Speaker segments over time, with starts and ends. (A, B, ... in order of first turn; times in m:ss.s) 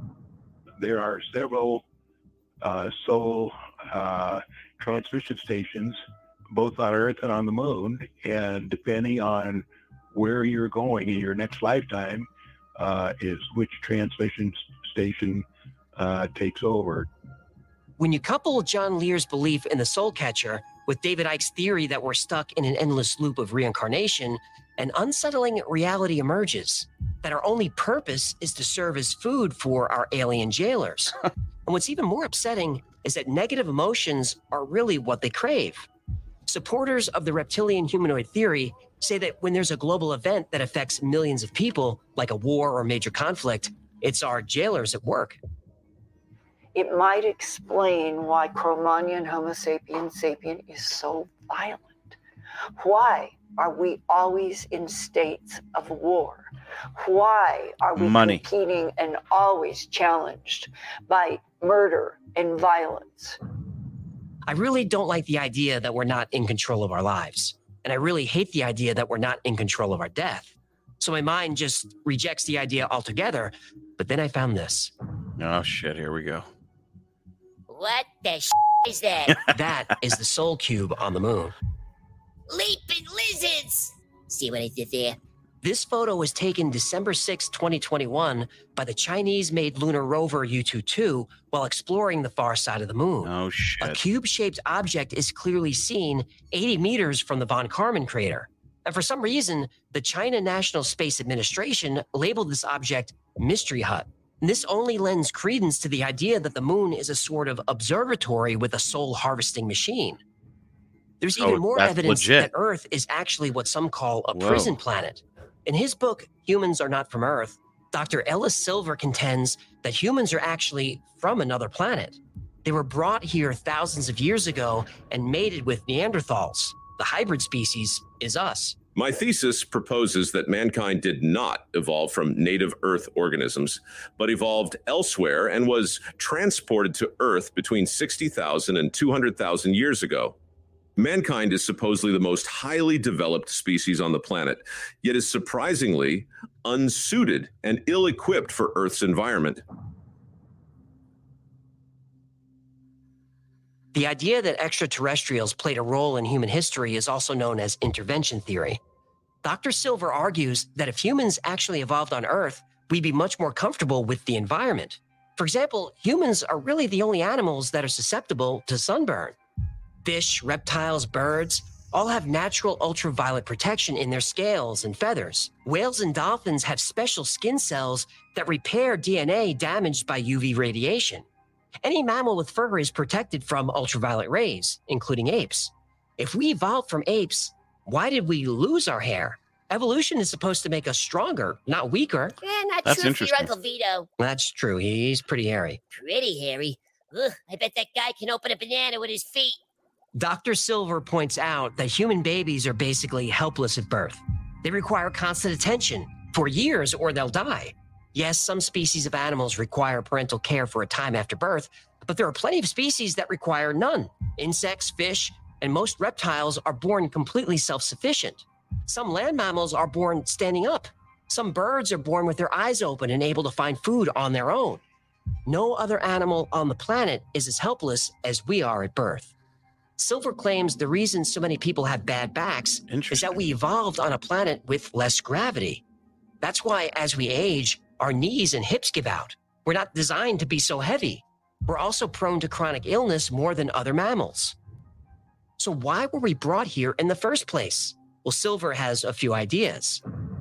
0:00.8-0:01.8 A
0:02.6-0:06.0 A
0:06.5-0:15.4 A
0:16.0-0:17.1 A
0:18.0-0:31.2 B
0:31.7-0:35.9 B
0:36.5-0:45.4 B
0:46.7-0:52.2 C
0:52.8-1:03.4 C
0:58.0-0:58.4 D
1:04.5-1:14.9 B
1:15.4-1:16.5 D
1:17.7-1:19.4 E
1:19.5-1:21.5 B
1:22.5-1:25.2 E
1:25.6-1:33.3 B
1:33.2-1:34.0 D
1:33.8-1:50.2 B
1:51.2-2:08.8 B
1:51.4-1:52.5 D
1:54.3-1:54.8 D
2:09.0-2:20.4 F
2:21.0-2:29.6 F
2:33.9-2:38.8 B
2:39.4-2:49.4 B
2:50.0-3:01.3 B
3:01.8-3:12.4 B
3:12.4-3:14.1 E
3:12.8-3:13.5 D
3:14.2-3:15.8 B
3:15.9-3:19.6 E
3:20.2-3:44.8 B
3:45.5-3:49.3 B
3:50.0-3:55.8 B
3:52.9-3:53.5 D
3:56.4-4:04.6 B
4:05.6-4:10.0 B